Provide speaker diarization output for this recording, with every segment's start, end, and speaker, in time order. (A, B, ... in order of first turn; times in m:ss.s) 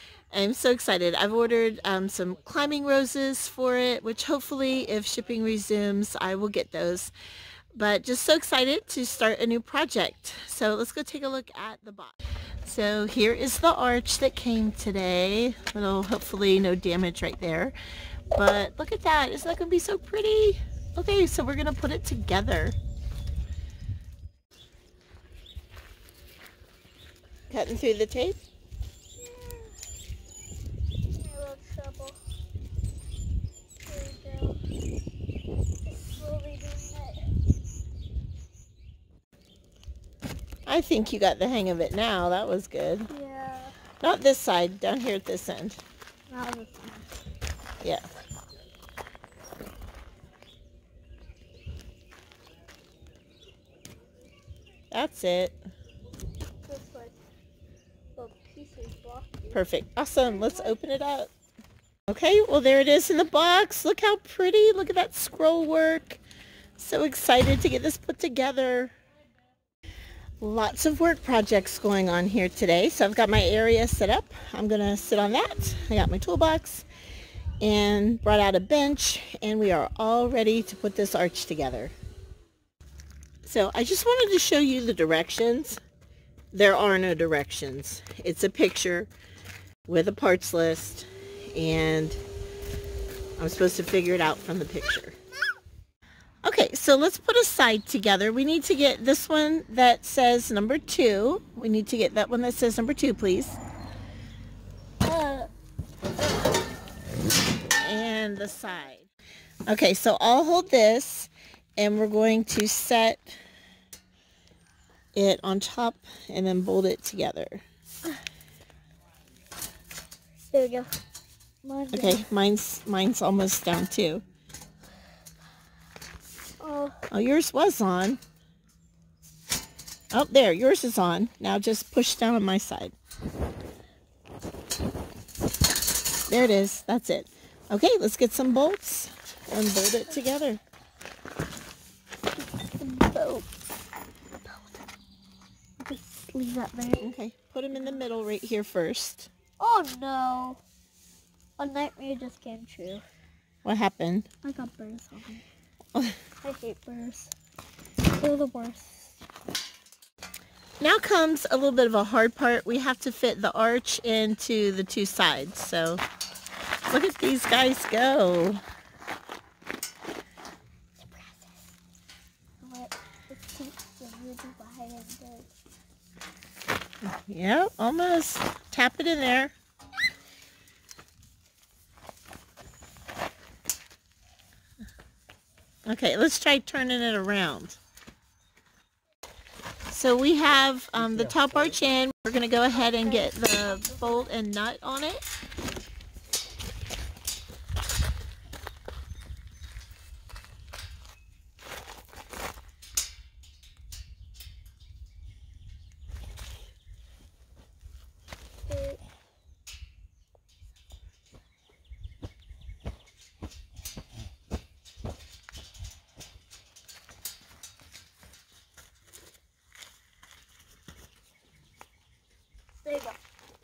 0:00.3-0:07.1 A
0:07.8-0:17.8 A
0:18.3-0:22.8 A
0:27.5-0:28.4 A
0:29.2-0:29.7 B
0:31.1-0:32.2 B
0:33.8-0:34.6 B
0:35.8-0:37.3 B
0:40.6-0:43.1 A
0:43.1-0:43.7 B
0:44.0-0:45.8 A
0:46.3-0:47.1 B
0:54.9-0:55.6 A
0:56.6-0:57.1 B
0:58.2-0:59.4 B
0:59.5-1:01.3 A
1:00.3-1:00.7 B
1:02.1-1:06.2 A
1:06.8-1:08.9 A
1:10.4-1:16.8 A
1:17.6-1:21.9 A
1:23.4-1:25.8 A
1:26.5-1:29.1 A
1:29.9-1:32.2 A
1:33.4-1:35.2 A
1:36.4-1:43.6 A
1:45.0-1:45.5 B
1:47.8-1:49.0 A
1:49.7-1:53.4 A
1:55.1-1:57.6 A
2:00.5-2:00.9 B
2:01.6-2:02.0 B
2:01.9-2:04.2 A
2:06.6-2:07.0 B
2:07.1-2:08.2 A
2:10.1-2:12.9 A
2:16.3-2:20.6 A
2:22.4-2:23.5 B
2:24.4-2:24.8 B
2:25.8-2:27.1 B
2:27.0-2:29.3 A
2:29.6-2:30.6 B
2:31.6-2:33.0 B
2:33.6-2:34.3 A
2:34.4-2:35.4 B
2:36.4-2:37.3 B
2:38.1-2:39.1 B
2:40.8-2:46.0 A
2:46.9-2:48.6 A
2:51.0-2:51.5 B
2:52.6-2:55.5 B
2:57.0-2:59.5 A
3:05.9-3:07.8 A
3:09.9-3:15.2 A
3:12.9-3:14.3 B
3:28.7-3:29.0 B
3:42.8-3:43.2 B